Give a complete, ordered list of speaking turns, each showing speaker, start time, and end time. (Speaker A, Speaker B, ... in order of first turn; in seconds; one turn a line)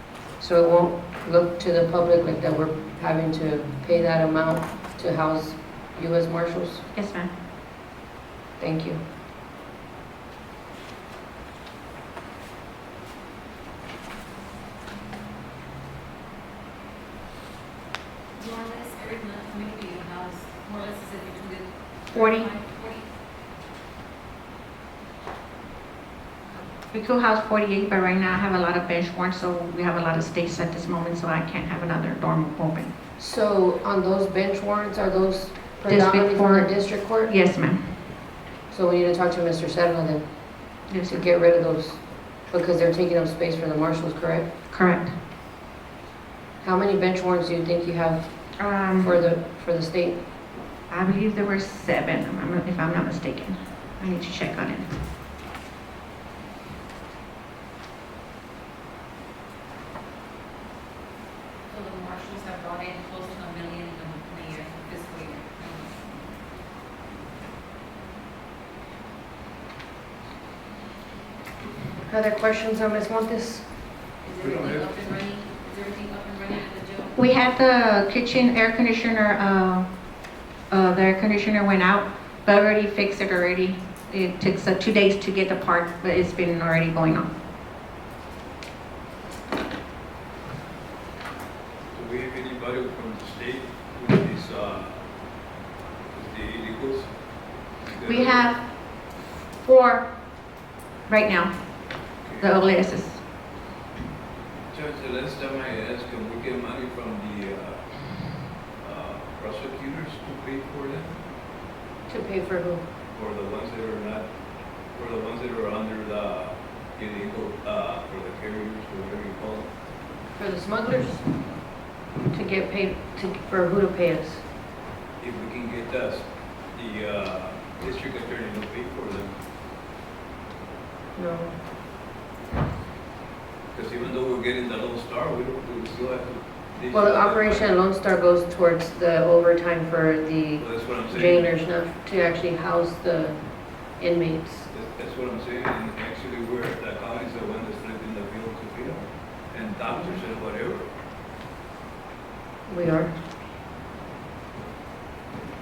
Speaker A: 0.4-6.8
Speaker B: 6.9-7.3
Speaker A: 8.6-9.0
Speaker C: 18.4-23.0
Speaker B: 22.1-22.5
Speaker B: 26.9-32.9
Speaker A: 33.2-37.3
Speaker B: 35.9-38.1
Speaker A: 38.7-44.5
Speaker B: 40.9-41.2
Speaker B: 44.7-45.1
Speaker A: 46.6-50.2
Speaker B: 48.6-49.2
Speaker B: 50.9-54.9
Speaker C: 61.7-66.0
Speaker A: 72.1-73.7
Speaker C: 74.2-77.2
Speaker D: 74.4-74.9
Speaker B: 77.2-79.9
Speaker B: 80.7-87.3
Speaker D: 91.9-95.0
Speaker D: 96.1-97.1
Speaker D: 97.8-98.5
Speaker B: 98.1-100.1
Speaker B: 101.1-103.2
Speaker D: 102.2-102.5
Speaker D: 104.7-111.1
Speaker A: 112.1-112.8
Speaker D: 113.1-114.3
Speaker D: 114.9-119.7
Speaker A: 120.3-121.3
Speaker A: 122.3-124.5
Speaker D: 125.2-129.3
Speaker A: 131.2-131.6
Speaker D: 133.7-137.8
Speaker A: 136.9-144.7
Speaker D: 140.6-141.5
Speaker D: 144.7-150.9
Speaker A: 152.7-153.1